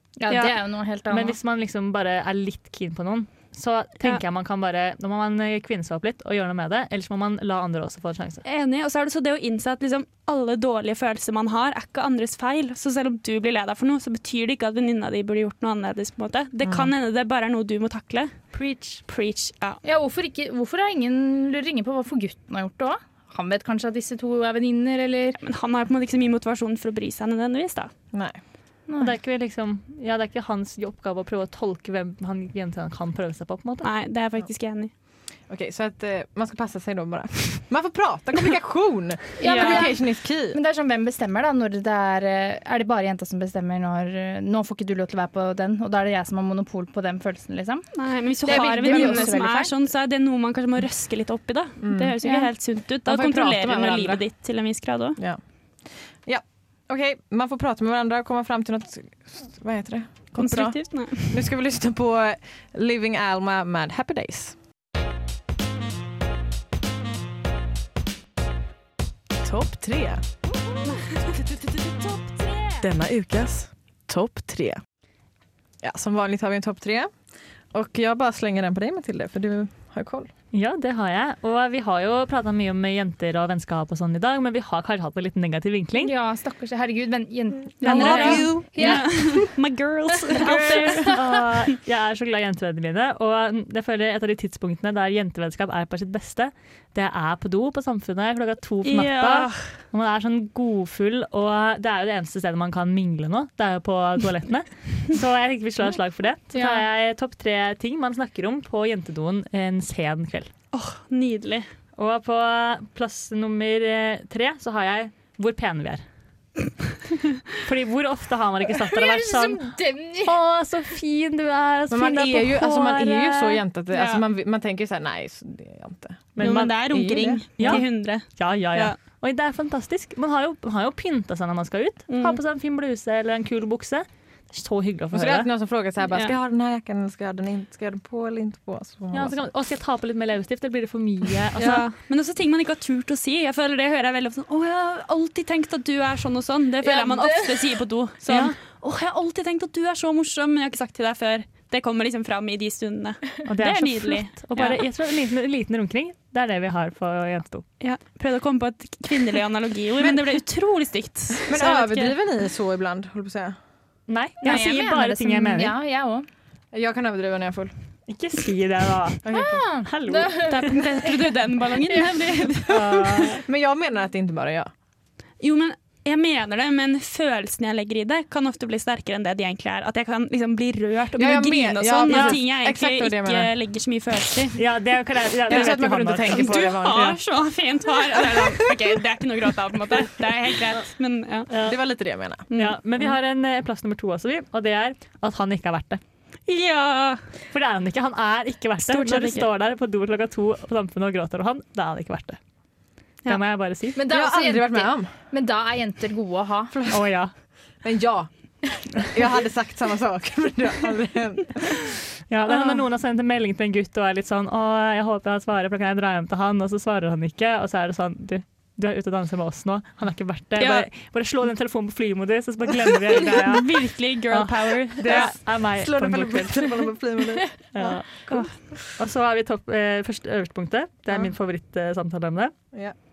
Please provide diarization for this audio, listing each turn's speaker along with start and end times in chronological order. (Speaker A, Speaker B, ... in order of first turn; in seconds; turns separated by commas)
Speaker A: 0.2-1.4, Speaker B: 0.3-0.5, Speaker C: 1.1-8.4, Speaker B: 8.4-18.5, Speaker C: 18.5-19.0, Speaker B: 19.1-19.8, Speaker A: 19.8-25.4, Speaker B: 25.4-27.9, Speaker D: 28.1-28.4, Speaker A: 28.9-29.1, Speaker C: 29.0-33.9, Speaker B: 33.8-34.9, Speaker D: 35.5-40.6, Speaker A: 39.4-47.9, Speaker B: 39.4-39.9, Speaker B: 47.9-55.2, Speaker A: 48.4-49.8, Speaker D: 48.5-49.3, Speaker D: 51.8-52.2, Speaker A: 52.2-52.5, Speaker D: 53.0-54.2, Speaker D: 55.2-64.5, Speaker B: 60.3-61.4, Speaker D: 69.4-70.2, Speaker B: 70.8-72.9, Speaker D: 72.8-74.8, Speaker D: 75.8-77.1, Speaker D: 77.7-80.3, Speaker C: 80.5-86.1, Speaker A: 85.9-89.5, Speaker B: 87.8-91.2, Speaker D: 87.8-89.5, Speaker C: 88.0-88.4, Speaker A: 90.3-91.2, Speaker C: 91.0-110.5, Speaker B: 98.8-99.7, Speaker A: 106.5-106.8, Speaker B: 110.7-111.7, Speaker C: 112.0-116.0, Speaker C: 117.6-123.6, Speaker A: 118.7-120.4, Speaker D: 121.9-127.8, Speaker B: 123.9-124.2, Speaker C: 126.3-135.5, Speaker B: 126.4-128.9, Speaker B: 132.1-132.4, Speaker D: 135.1-139.4, Speaker C: 139.1-141.9, Speaker B: 141.6-154.8, Speaker A: 146.8-147.6, Speaker C: 148.3-148.6, Speaker C: 153.4-157.7, Speaker B: 157.8-162.1, Speaker D: 160.0-160.4, Speaker D: 161.4-163.6, Speaker C: 164.1-165.8, Speaker A: 164.4-166.2, Speaker D: 166.7-167.7, Speaker C: 168.1-170.8, Speaker D: 169.2-169.6, Speaker A: 169.3-170.7, Speaker B: 170.5-172.7, Speaker C: 172.7-173.4, Speaker D: 172.7-174.7, Speaker B: 175.4-184.6, Speaker D: 181.2-183.5, Speaker C: 182.1-182.3, Speaker C: 184.6-187.2, Speaker D: 185.5-187.2, Speaker B: 185.5-191.5, Speaker D: 188.2-188.4, Speaker C: 191.5-191.8, Speaker D: 191.6-192.4, Speaker B: 192.5-192.8, Speaker C: 192.5-196.0, Speaker B: 196.4-197.2, Speaker C: 197.5-202.4, Speaker B: 198.8-199.5, Speaker C: 203.2-204.0, Speaker A: 203.9-206.7, Speaker D: 204.1-205.1, Speaker D: 206.7-207.1, Speaker C: 206.9-207.3, Speaker D: 207.8-211.9, Speaker C: 212.3-226.9, Speaker B: 212.5-212.8, Speaker B: 220.6-220.9, Speaker B: 223.2-225.3, Speaker D: 225.1-227.5, Speaker C: 227.7-228.2, Speaker B: 227.8-228.5, Speaker C: 229.0-232.5